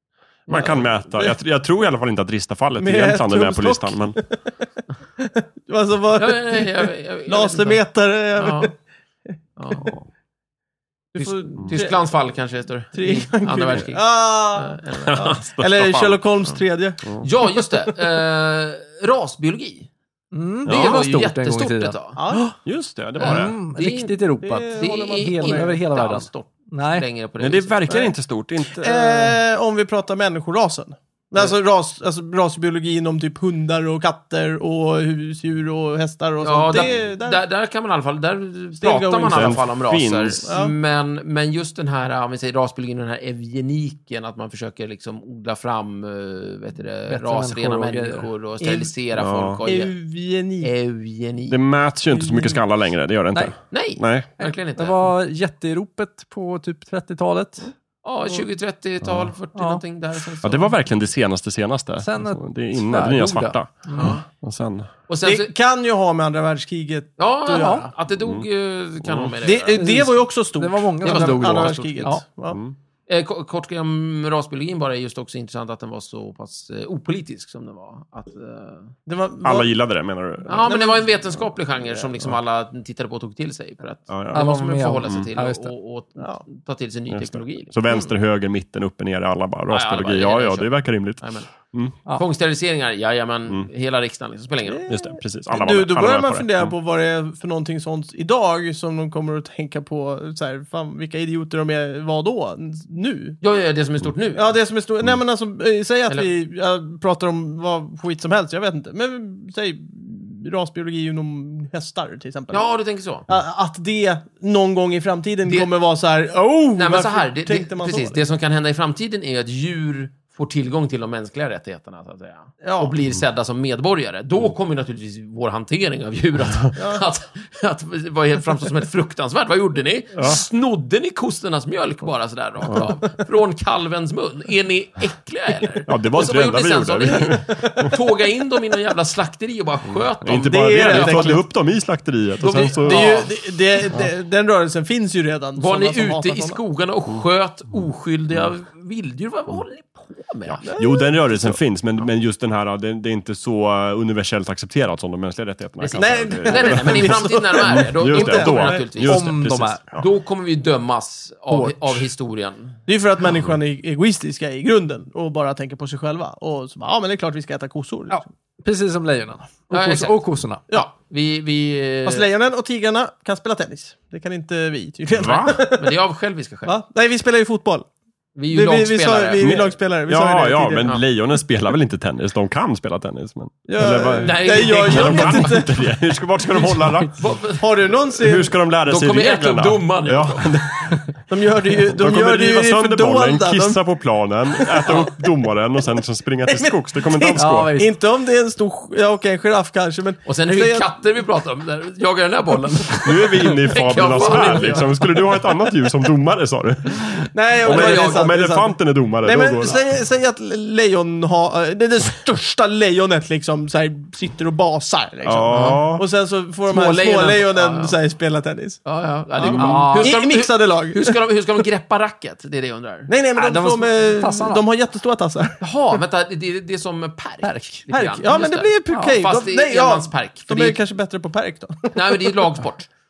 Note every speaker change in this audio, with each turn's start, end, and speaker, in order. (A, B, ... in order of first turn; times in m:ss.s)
0:00.5-0:04.2 A
0:00.5-0:01.3 B
0:02.8-0:04.4 B
0:05.2-0:08.7 B
0:06.2-0:07.8 C
0:08.4-0:08.7 C
0:09.6-0:09.9 C
0:09.7-0:09.9 B
0:11.1-0:12.0 B
0:11.2-0:15.4 C
0:12.9-0:17.7 B
0:15.1-0:16.2 A
0:17.2-0:19.9 C
0:20.3-0:22.5 D
0:20.6-0:21.0 A
0:20.6-0:22.2 C
0:22.2-0:22.4 B
0:22.6-0:23.6 A
0:23.2-0:27.0 D
0:23.2-0:27.8 C
0:24.4-0:25.7 B
0:27.4-0:29.4 A
0:27.9-0:28.1 B
0:28.7-0:37.4 B
0:36.4-0:49.9 C
0:38.8-0:39.6 B
0:39.2-0:40.4 A
0:40.4-0:40.7 B
0:47.1-0:48.3 D
0:48.6-0:48.9 B
0:49.2-0:49.6 A
0:49.6-0:50.7 B
0:50.6-0:51.6 C
0:51.5-0:54.3 A
0:52.1-0:52.6 B
0:53.7-0:55.1 C
0:54.4-0:57.7 D
0:58.0-1:00.7 C
0:59.0-0:59.3 A
0:59.6-0:59.8 D
1:00.4-1:04.9 A
1:02.0-1:04.2 D
1:03.9-1:04.2 C
1:05.1-1:05.5 C
1:05.2-1:07.9 B
1:07.2-1:09.9 C
1:07.5-1:07.8 D
1:08.2-1:08.4 A
1:09.0-1:09.3 A
1:09.4-1:12.6 B
1:09.8-1:12.2 D
1:11.0-1:12.1 C
1:12.5-1:12.7 A
1:13.1-1:18.9 C
1:19.1-1:19.7 B
1:19.4-1:20.7 A
1:20.4-1:27.7 C
1:20.6-1:21.1 B
1:24.1-1:24.4 A
1:24.3-1:25.7 D
1:26.2-1:26.4 B
1:27.1-1:32.0 A
1:29.7-1:31.5 C
1:32.1-1:34.9 C
1:34.6-1:43.4 B
1:34.9-1:36.7 A
1:43.4-1:44.5 C
1:44.3-1:52.7 B
1:52.5-1:53.3 C
1:53.3-1:58.2 B
1:55.4-1:55.7 C
1:56.8-2:21.4 C
2:02.6-2:02.9 B
2:06.8-2:07.1 B
2:10.1-2:10.4 A
2:15.8-2:17.9 A
2:20.2-2:23.2 A
2:20.4-2:21.4 B
2:22.4-2:23.3 C
2:22.8-2:26.6 B
2:25.6-2:30.7 C
2:30.4-2:40.0 A
2:30.7-2:31.1 B
2:35.8-2:39.4 C
2:35.9-2:38.8 B
2:39.0-2:39.8 D
2:39.9-2:42.8 C
2:41.5-2:42.0 D
2:42.9-2:48.2 B
2:48.1-2:50.6 D
2:49.7-2:50.2 C
2:50.7-2:52.2 C
2:52.0-2:56.0 B
2:55.1-2:55.6 A
2:55.7-2:56.7 C
2:56.6-2:57.9 B
2:58.4-2:59.7 C
2:58.5-3:00.9 B
2:59.4-3:07.2 A
3:03.7-3:05.7 B
3:04.2-3:05.6 C
3:06.6-3:07.7 C
3:07.6-3:08.5 B
3:08.2-3:11.2 A
3:08.8-3:10.6 C
3:11.3-3:13.8 B
3:11.8-3:17.7 A
3:14.6-3:15.1 B
3:16.5-3:20.9 B
3:17.4-3:17.9 D
3:20.2-3:25.2 C
3:23.0-3:29.8 A
3:24.4-3:24.7 B
3:27.3-3:38.8 B
3:27.6-3:28.3 C
3:35.2-3:36.0 A
3:35.5-3:35.8 C
3:36.6-3:38.0 C
3:38.8-3:43.1 C
3:39.4-3:41.2 B
3:39.5-3:40.2 D
3:43.1-3:45.6 B
3:43.4-3:44.6 D
3:45.6-3:50.8 C
3:47.4-3:47.8 D
3:47.9-3:52.4 B
3:48.9-3:49.2 D
3:51.9-3:52.9 C